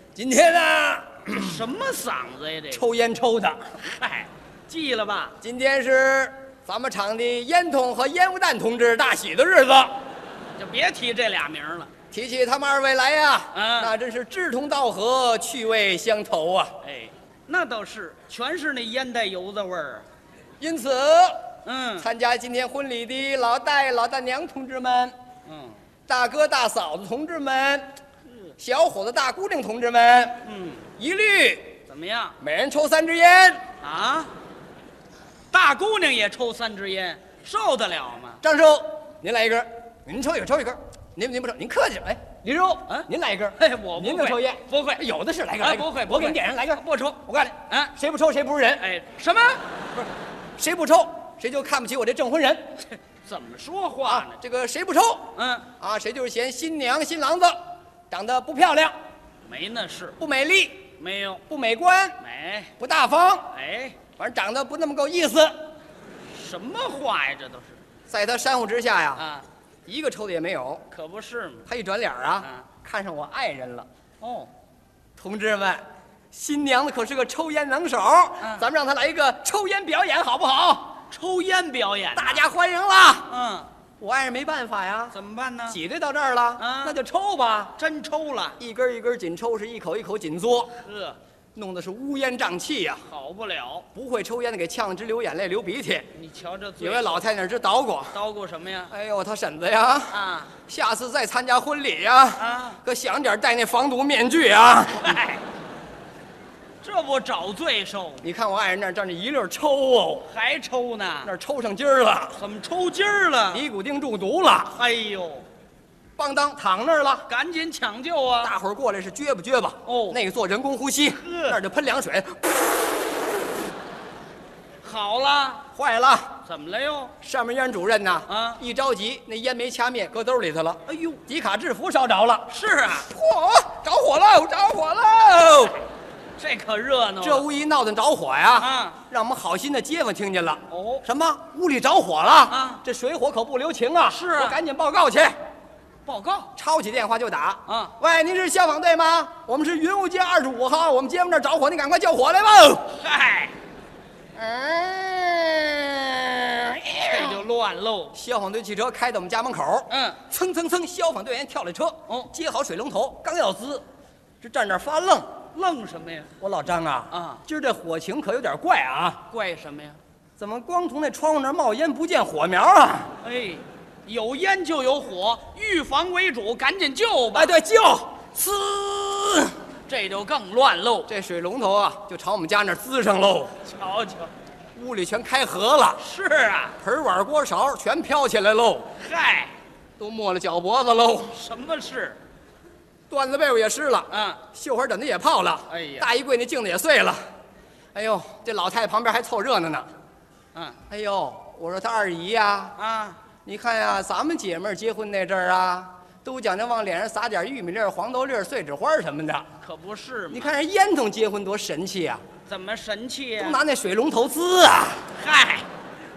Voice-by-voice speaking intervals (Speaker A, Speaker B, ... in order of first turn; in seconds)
Speaker A: 0.1-1.6, 2.7-3.7, 5.4-10.0, 12.1-16.8, 20.6-25.1, 26.1-27.9, 28.6-30.4, 31.0-31.8, 32.4-33.6, 38.4-48.9, 50.6-52.6, 54.1-57.6, 58.1-59.0, 60.2-60.9, 61.5-62.2, 62.8-63.5, 64.1-65.6, 68.1-69.2, 69.9-70.8, 71.7-73.9, 75.2-81.0, 82.2-83.3, 84.0-85.1, 85.7-87.7, 88.6-90.7, 91.6-93.0, 94.0-96.1, 96.8-98.1, 98.9-105.2, 108.2-110.3, 111.2-112.4, 113.5-114.8, 116.2-117.3, 118.4-122.5, 125.7-126.3, 127.2-132.5, 133.1-135.8, 137.2-145.3, 146.6-152.9, 154.3-157.4, 158.1-163.8, 164.4-165.3, 166.4-169.2, 170.4-173.1, 177.3-179.6, 181.1-183.6, 184.8-186.0, 186.8-188.9, 190.0-191.4, 193.1-197.2, 197.9-199.9, 200.9-202.8, 203.4-209.5, 210.3-212.2, 213.4-215.1
Speaker B: 1.3-2.9, 3.8-5.4, 10.6-11.9, 13.5-13.9, 16.8-20.1, 21.6-22.1, 25.4-25.8, 30.4-30.9, 31.9-32.4, 33.8-34.3, 35.5-38.4, 42.9-45.0, 45.6-48.0, 48.8-50.0, 53.1-54.4, 55.4-55.7, 59.5-60.1, 61.0-61.4, 62.2-62.7, 63.5-64.0, 66.3-67.8, 69.2-69.5, 70.9-71.7, 72.4-72.6, 74.2-74.5, 78.4-78.6, 81.1-82.5, 83.3-83.7, 85.1-85.8, 86.6-87.0, 87.8-88.6, 90.8-91.2, 93.1-93.9, 96.1-97.2, 98.1-98.9, 100.1-100.5, 102.4-102.8, 105.0-105.4, 106.8-108.3, 110.2-111.3, 112.4-113.6, 114.7-115.5, 117.3-118.5, 119.9-120.2, 121.1-121.6, 124.8-125.7, 126.5-127.1, 128.3-128.6, 130.9-131.2, 132.5-133.1, 136.4-137.5, 138.6-139.0, 140.7-141.1, 142.5-142.8, 144.1-144.6, 146.1-146.5, 147.7-147.9, 152.9-153.6, 157.0-158.1, 159.9-160.2, 165.5-166.3, 167.1-167.4, 169.3-170.0, 173.2-177.5, 179.9-181.1, 183.6-184.3, 186.0-186.8, 189.0-189.6, 191.3-192.2, 194.1-194.4, 195.7-196.1, 200.5-200.8, 202.8-203.2, 209.6-210.5, 212.5-213.6, 215.1-215.7